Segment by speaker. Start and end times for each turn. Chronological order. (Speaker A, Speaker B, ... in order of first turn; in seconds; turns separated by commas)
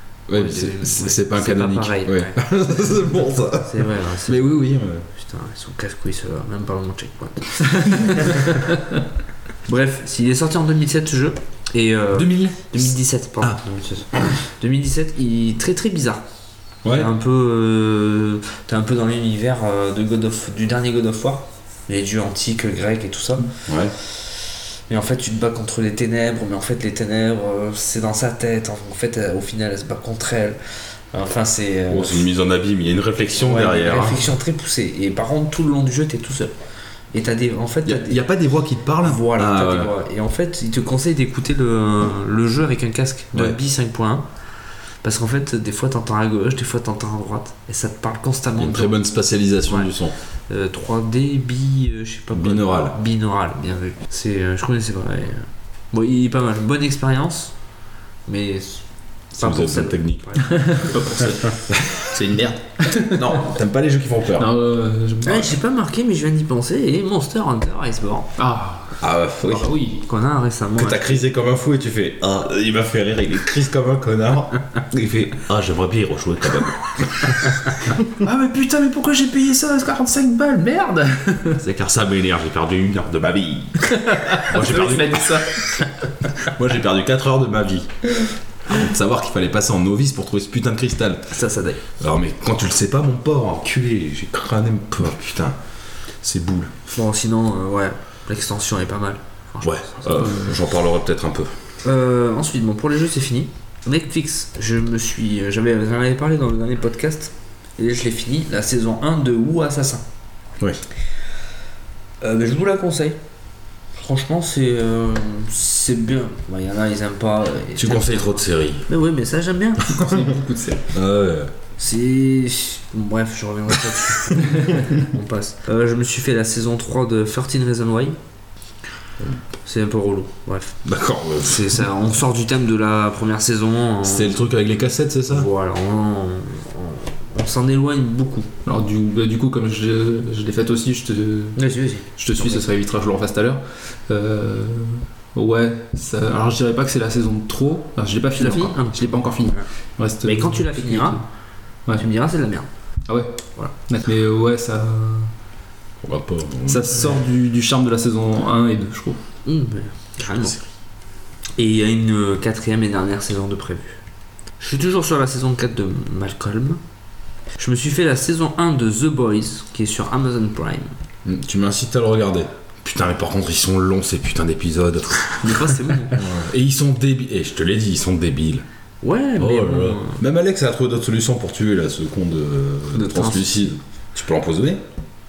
Speaker A: 0.3-5.1, Speaker B: 0.3-2.4, Speaker B: 3.6-4.5, Speaker B: 5.1-8.7, Speaker B: 9.7-16.2, Speaker A: 12.1-12.9, Speaker A: 16.8-17.1, Speaker B: 16.9-23.5, Speaker A: 23.7-23.9, Speaker B: 24.1-30.6, Speaker B: 31.1-32.3, Speaker A: 31.9-34.3, Speaker B: 33.4-36.5, Speaker B: 37.1-38.2, Speaker A: 37.8-39.9, Speaker B: 39.0-44.2, Speaker A: 43.3-43.6, Speaker B: 45.0-49.0, Speaker A: 48.6-50.1, Speaker B: 49.6-50.0, Speaker B: 50.5-57.5, Speaker A: 52.3-53.0, Speaker B: 58.2-61.0, Speaker A: 59.4-60.9, Speaker C: 60.5-63.3, Speaker A: 61.5-62.1, Speaker A: 62.9-64.5, Speaker C: 64.4-65.5, Speaker B: 65.2-68.3, Speaker C: 68.4-70.0, Speaker A: 69.0-69.7, Speaker B: 69.9-71.2, Speaker A: 70.8-78.0, Speaker C: 78.2-81.6, Speaker A: 81.6-85.6, Speaker C: 83.8-85.6, Speaker A: 86.3-87.9, Speaker A: 88.6-91.2, Speaker B: 91.3-91.8, Speaker A: 92.0-95.6, Speaker A: 96.2-96.7, Speaker B: 96.9-100.4, Speaker A: 99.6-101.5, Speaker B: 101.8-110.0, Speaker B: 112.2-113.2, Speaker B: 114.0-120.2, Speaker A: 117.8-118.9, Speaker C: 119.9-120.8, Speaker A: 120.0-120.2, Speaker A: 120.9-121.5, Speaker B: 121.8-128.2, Speaker C: 124.4-124.8, Speaker B: 129.6-130.8, Speaker A: 130.8-131.8, Speaker B: 131.4-134.4, Speaker A: 134.0-135.5, Speaker B: 135.3-138.5, Speaker C: 138.6-141.6, Speaker B: 141.6-142.6, Speaker C: 142.2-151.2, Speaker B: 148.3-149.6, Speaker B: 150.2-151.2, Speaker B: 151.9-152.7, Speaker C: 153.1-155.3, Speaker A: 156.0-157.1, Speaker C: 156.7-159.2, Speaker B: 159.4-160.6, Speaker B: 161.6-164.0, Speaker B: 164.6-166.8, Speaker B: 167.6-170.9, Speaker A: 171.2-175.6, Speaker B: 175.4-176.2, Speaker A: 176.1-178.6, Speaker B: 179.0-180.2, Speaker A: 179.4-184.8, Speaker B: 182.9-183.6